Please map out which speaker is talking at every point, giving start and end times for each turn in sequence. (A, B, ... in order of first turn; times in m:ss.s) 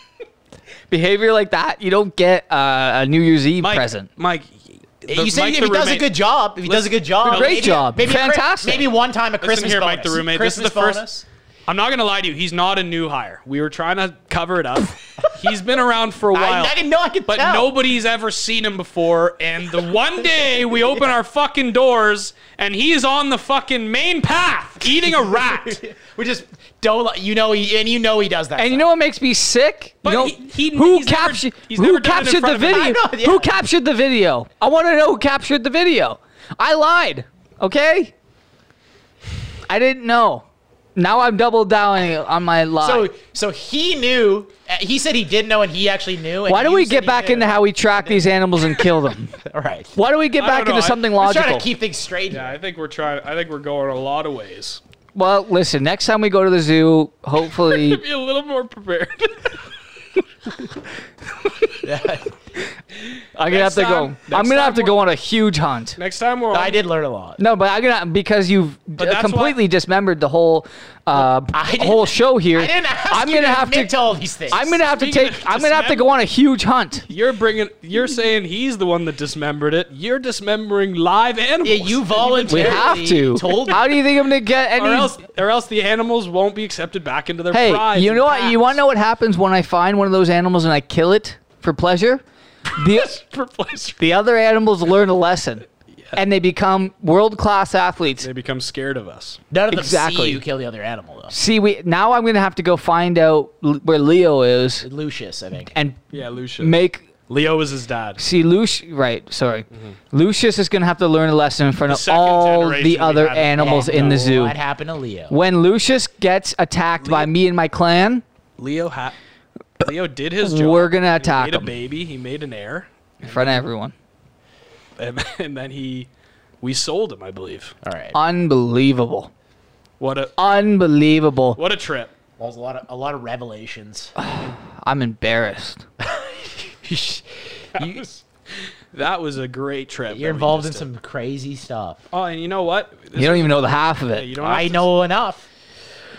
0:00.9-0:04.1 A
0:03.6-0:07.8 B
0:05.1-0:11.2 C
0:07.2-0:08.9 A
0:09.4-0:11.0 B
0:11.7-0:16.8 B
0:16.3-0:17.8 C
0:17.3-0:25.8 B
0:24.8-0:28.9 C
0:28.6-0:38.1 A
0:30.0-0:32.9 B
0:32.6-0:33.5 C
0:39.7-0:40.4 A
0:41.0-0:43.1 A
0:42.8-0:48.8 C
0:46.5-0:49.4 A
0:49.4-0:50.0 C
0:50.0-0:51.7 A
0:50.4-0:51.1 B
0:51.2-0:52.6 C
0:52.3-0:54.8 B
0:55.2-0:58.0 A
0:57.6-0:59.6 B
1:01.8-1:02.3 C
1:03.4-1:06.0 A
1:03.5-1:05.0 B
1:06.0-1:06.8 B
1:06.5-1:07.4 C
1:07.4-1:14.0 A
1:09.0-1:09.6 B
1:11.5-1:14.8 C
1:14.5-1:17.1 A
1:14.8-1:16.1 B
1:17.1-1:23.0 B
1:21.6-1:24.0 C
1:22.5-1:25.2 A
1:24.8-1:28.8 B
1:27.5-1:32.2 A
1:32.8-1:33.2 A
1:32.9-1:34.0 B
1:34.0-1:38.3 A
1:38.2-1:39.4 B
1:39.5-1:41.3 C
1:39.7-1:40.4 A
1:41.3-1:44.9 A
1:44.8-1:45.7 C
1:45.7-1:46.0 A
1:46.1-1:48.2 B
1:46.6-1:47.0 A
1:48.2-1:54.6 A
1:51.9-1:54.3 B
1:53.6-1:55.4 C
1:55.3-1:58.2 A
1:57.0-1:57.3 B
1:58.6-1:59.2 B
1:59.8-2:03.6 B
2:00.4-2:01.7 A
2:03.2-2:03.9 A
2:05.0-2:06.1 B
2:06.6-2:07.8 B
2:07.8-2:08.2 C
2:08.1-2:09.3 A
2:10.0-2:10.4 B
2:10.4-2:11.6 A
2:11.6-2:12.1 B
2:12.4-2:14.1 C
2:14.2-2:15.8 A
2:16.0-2:18.2 C
2:18.9-2:20.9 B
2:20.1-2:22.0 C
2:22.1-2:24.9 B
2:23.2-2:24.3 A
2:24.4-2:25.5 C